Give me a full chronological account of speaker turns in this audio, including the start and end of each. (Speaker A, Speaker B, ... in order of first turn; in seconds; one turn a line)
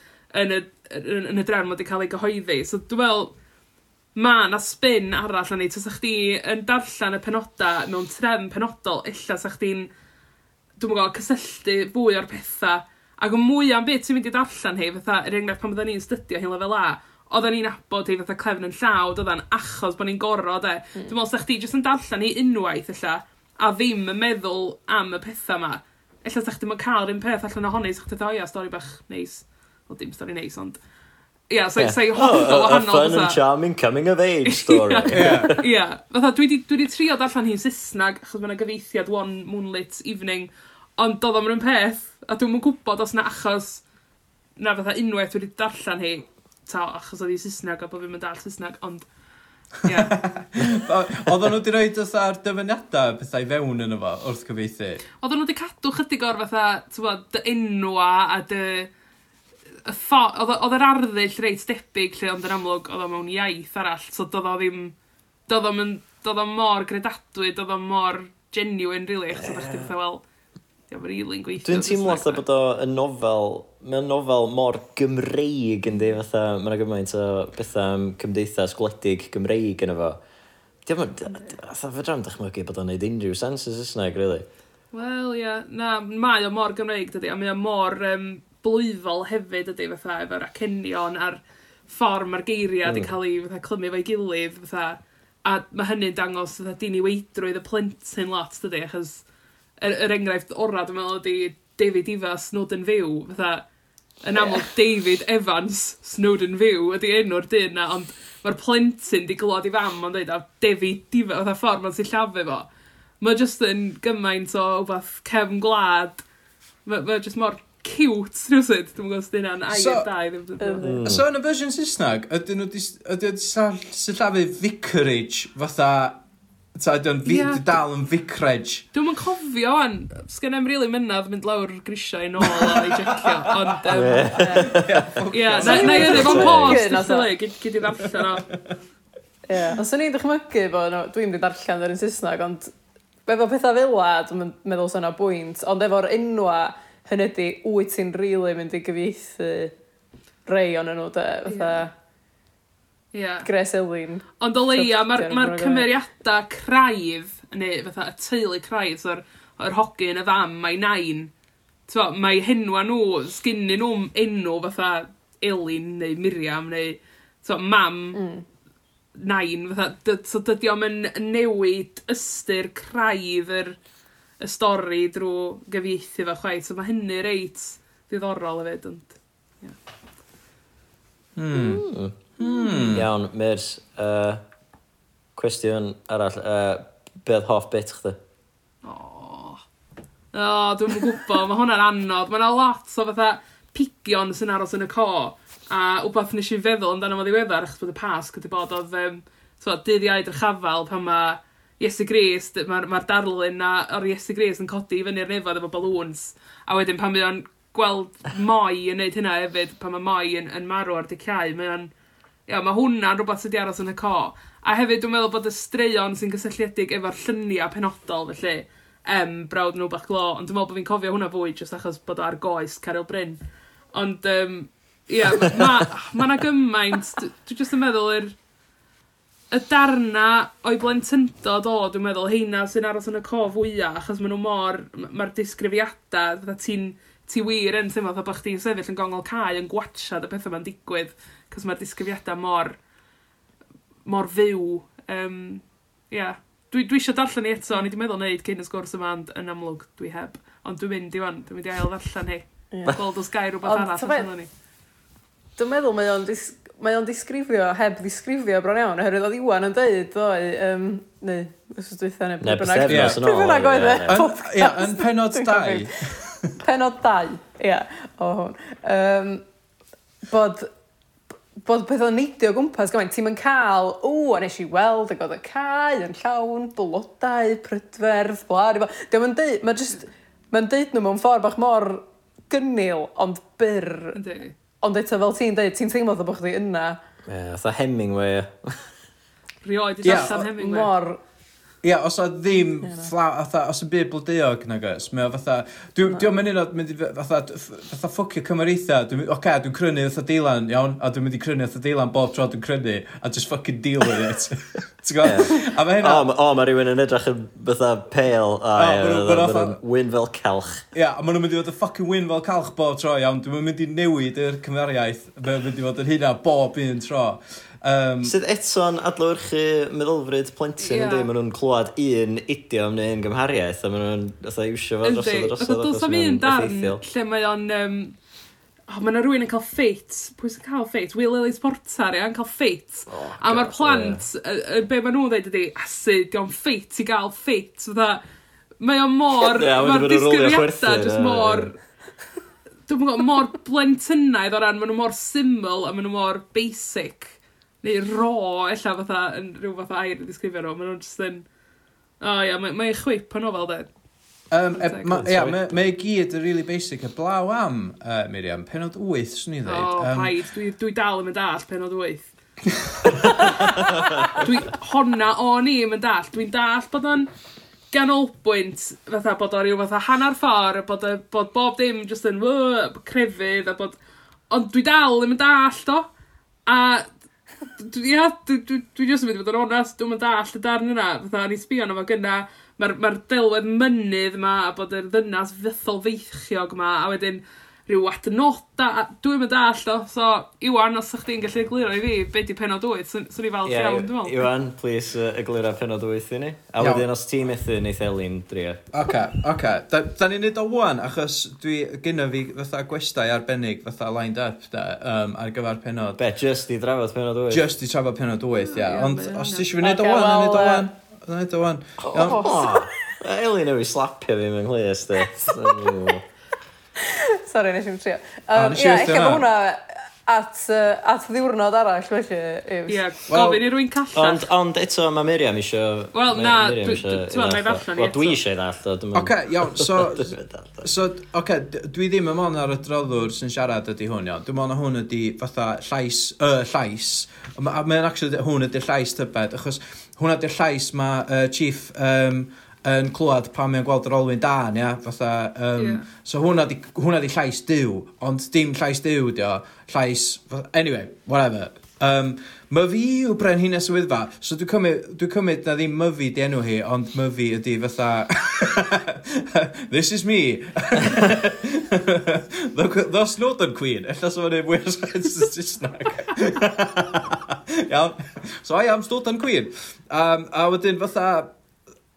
Speaker A: 0.3-3.3
Speaker A: 4.2-9.9
Speaker A: 10.8-30.8
Speaker A: 31.5-33.4
Speaker B: 31.8-35.6
Speaker A: 34.5-43.8
Speaker C: 35.1-35.5
Speaker A: 44.6-49.1
Speaker A: 49.8-50.1
Speaker C: 49.9-55.0
Speaker A: 55.2-58.9
Speaker A: 59.9-64.9
Speaker A: 65.5-70.2
Speaker B: 69.3-69.9
Speaker A: 70.9-72.4
Speaker B: 71.6-80.2
Speaker B: 80.9-84.5
Speaker A: 81.3-81.6
Speaker A: 84.9-99.2
Speaker B: 92.8-93.1
Speaker A: 99.8-103.7
Speaker A: 104.2-112.7
Speaker D: 104.4-104.7
Speaker A: 113.2-116.2
Speaker A: 116.9-120.9
Speaker C: 119.7-120.1
Speaker D: 120.6-121.2
Speaker B: 120.8-121.2
Speaker C: 121.0-126.2
Speaker C: 126.8-128.9
Speaker A: 127.2-127.6
Speaker A: 128.9-134.4
Speaker C: 132.5-133.6
Speaker B: 133.9-136.8
Speaker D: 134.3-134.8
Speaker C: 134.7-136.6
Speaker A: 135.3-138.5
Speaker D: 135.7-137.3
Speaker C: 138.0-138.7
Speaker D: 139.5-142.7
Speaker D: 143.3-149.7
Speaker D: 150.5-151.9
Speaker A: 151.5-151.9
Speaker A: 153.1-153.5
Speaker D: 153.4-155.9
Speaker A: 154.4-161.3
Speaker A: 161.9-168.2
Speaker D: 168.2-168.4
Speaker A: 169.2-173.8
Speaker A: 174.4-179.8
Speaker C: 181.4-181.9
Speaker B: 181.5-182.2
Speaker C: 182.4-183.1
Speaker B: 182.9-184.5
Speaker B: 185.3-188.2
Speaker A: 188.8-189.6
Speaker A: 190.3-211.9
Speaker A: 212.5-223.4
Speaker A: 223.9-228.3
Speaker A: 229.5-242.8
Speaker A: 244.1-254.5
Speaker D: 253.6-254.3
Speaker D: 255.6-265.9
Speaker B: 262.4-264.2
Speaker C: 262.9-263.2
Speaker C: 264.1-266.6
Speaker D: 266.6-269.4
Speaker D: 270.3-270.7
Speaker D: 271.6-284.2
Speaker A: 284.1-284.6
Speaker D: 284.8-287.0
Speaker B: 287.3-288.9
Speaker A: 289.6-290.9
Speaker C: 290.0-290.5
Speaker D: 290.6-291.2
Speaker C: 291.8-306.2
Speaker B: 305.2-310.9
Speaker C: 308.8-309.8
Speaker C: 310.9-318.4
Speaker B: 318.2-327.0
Speaker A: 320.8-321.3
Speaker A: 325.0-328.1
Speaker A: 328.9-338.2
Speaker B: 333.1-334.2
Speaker A: 338.8-341.8
Speaker B: 339.6-341.7
Speaker A: 342.9-351.5
Speaker A: 352.2-353.9
Speaker C: 354.5-360.3
Speaker A: 354.8-355.2
Speaker B: 355.1-355.6
Speaker A: 359.7-362.3
Speaker C: 363.1-363.4
Speaker A: 363.5-367.3
Speaker A: 367.9-374.0
Speaker A: 374.5-376.1
Speaker A: 376.7-377.1
Speaker A: 377.7-394.5
Speaker B: 393.6-398.8
Speaker C: 396.8-397.1
Speaker C: 398.9-406.2
Speaker B: 406.2-407.7
Speaker C: 407.5-412.4
Speaker A: 408.6-409.8
Speaker D: 409.8-410.9
Speaker D: 412.1-412.9
Speaker B: 412.2-416.2
Speaker D: 415.3-415.9
Speaker D: 417.0-423.1
Speaker C: 418.5-419.4
Speaker A: 422.9-424.4
Speaker C: 423.3-423.6
Speaker B: 424.1-430.8
Speaker A: 426.1-428.4
Speaker C: 429.1-471.5
Speaker A: 445.8-446.1